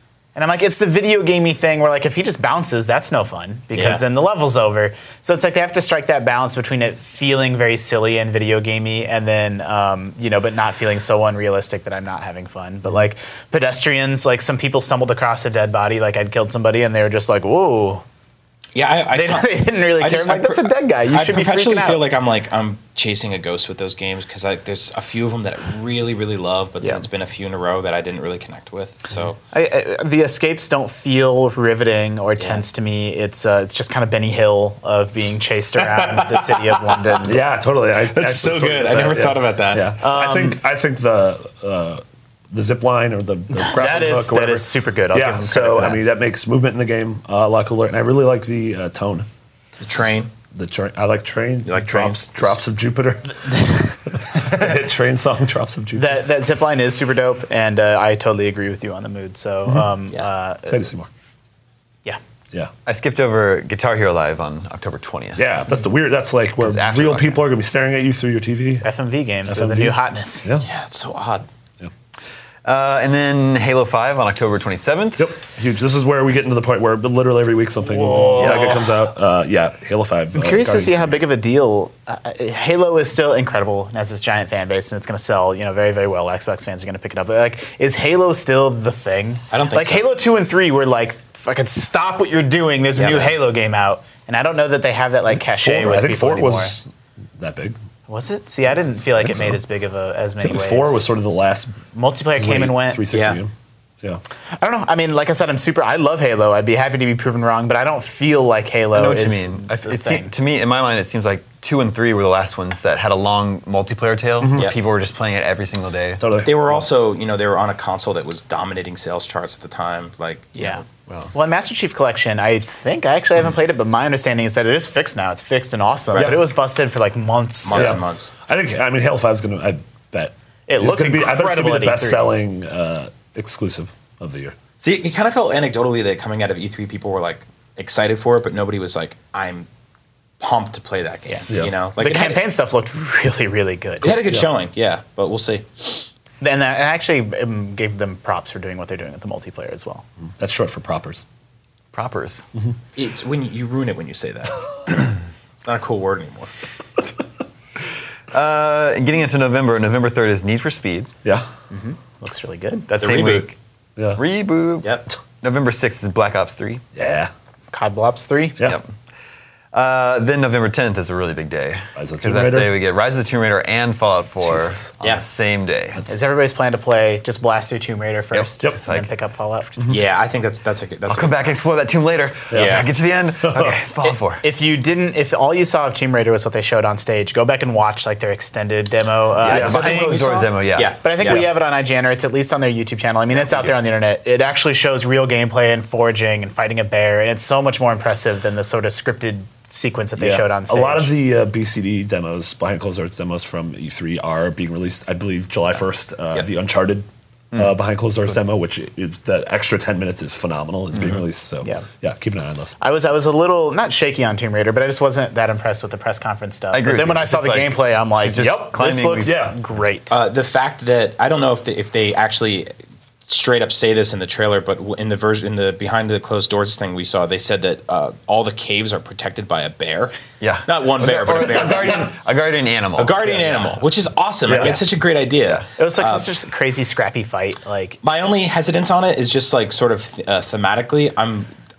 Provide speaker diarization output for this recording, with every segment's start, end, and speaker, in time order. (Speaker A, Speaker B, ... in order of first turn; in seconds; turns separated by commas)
Speaker A: 0.3-18.0, Speaker B: 3.7-4.0, Speaker B: 18.8-29.4, Speaker A: 19.1-22.0, Speaker A: 29.5-37.4, Speaker B: 32.4-32.6, Speaker B: 35.8-37.2, Speaker C: 37.2-49.3, Speaker B: 38.0-40.0, Speaker A: 40.0-40.6, Speaker A: 43.5-46.0, Speaker B: 49.8-50.3, Speaker C: 50.5-56.2, Speaker B: 51.6-52.6, Speaker A: 54.4-54.7, Speaker A: 56.0-60.8, Speaker C: 60.7-61.1, Speaker D: 62.9-65.5, Speaker C: 65.4-68.9, Speaker D: 66.7-67.4, Speaker A: 68.8-70.5, Speaker C: 69.5-70.7, Speaker B: 70.6-71.5, Speaker D: 72.7-75.4, Speaker C: 75.2-81.2, Speaker A: 77.8-78.8, Speaker D: 78.4-78.8, Speaker A: 80.3-96.8, Speaker B: 89.5-90.1, Speaker B: 92.9-93.4, Speaker C: 95.3-97.8, Speaker A: 98.1-101.1, Speaker C: 98.8-99.6, Speaker C: 100.4-101.8, Speaker A: 101.9-103.0, Speaker C: 102.4-104.2, Speaker B: 103.1-103.4, Speaker A: 104.6-110.3, Speaker D: 108.9-116.2, Speaker C: 114.4-114.7, Speaker C: 116.2-116.8, Speaker B: 116.4-120.8, Speaker A: 120.6-128.0, Speaker B: 126.1-126.4, Speaker C: 126.2-126.4, Speaker B: 127.7-128.3, Speaker C: 127.7-134.6, Speaker A: 130.7-132.3, Speaker B: 134.8-139.7, Speaker B: 140.4-142.4, Speaker A: 142.0-144.1, Speaker B: 144.0-146.1, Speaker C: 144.1-144.5, Speaker A: 146.4-150.0, Speaker C: 150.4-151.2, Speaker D: 151.9-152.4, Speaker B: 153.0-155.1, Speaker B: 155.6-156.5, Speaker D: 158.3-161.1, Speaker A: 161.7-162.9, Speaker D: 162.9-163.6, Speaker B: 163.0-163.5, Speaker D: 164.2-166.8, Speaker C: 166.9-167.3, Speaker A: 167.7-168.6, Speaker D: 168.6-168.9, Speaker D: 169.7-176.0, Speaker C: 172.0-172.8, Speaker C: 174.4-174.9, Speaker A: 176.1-179.7, Speaker D: 178.3-179.1, Speaker B: 179.9-181.6, Speaker D: 181.1-184.4, Speaker C: 182.5-182.9, Speaker B: 182.5-182.9, Speaker C: 183.4-183.8, Speaker A: 184.0-190.3, Speaker D: 189.4-190.9, Speaker B: 189.4-191.5, Speaker C: 189.5-190.0, Speaker A: 191.0-201.1, Speaker C: 200.2-212.8, Speaker D: 210.9-211.2, Speaker A: 212.8-220.1, Speaker D: 216.7-219.4, Speaker C: 219.2-219.6, Speaker B: 220.1-222.7, Speaker B: 223.3-230.2, Speaker D: 230.4-233.9, Speaker B: 230.7-232.1, Speaker B: 233.0-236.3, Speaker C: 234.5-234.8, Speaker D: 234.5-234.8, Speaker A: 235.8-238.0, Speaker B: 238.0-241.5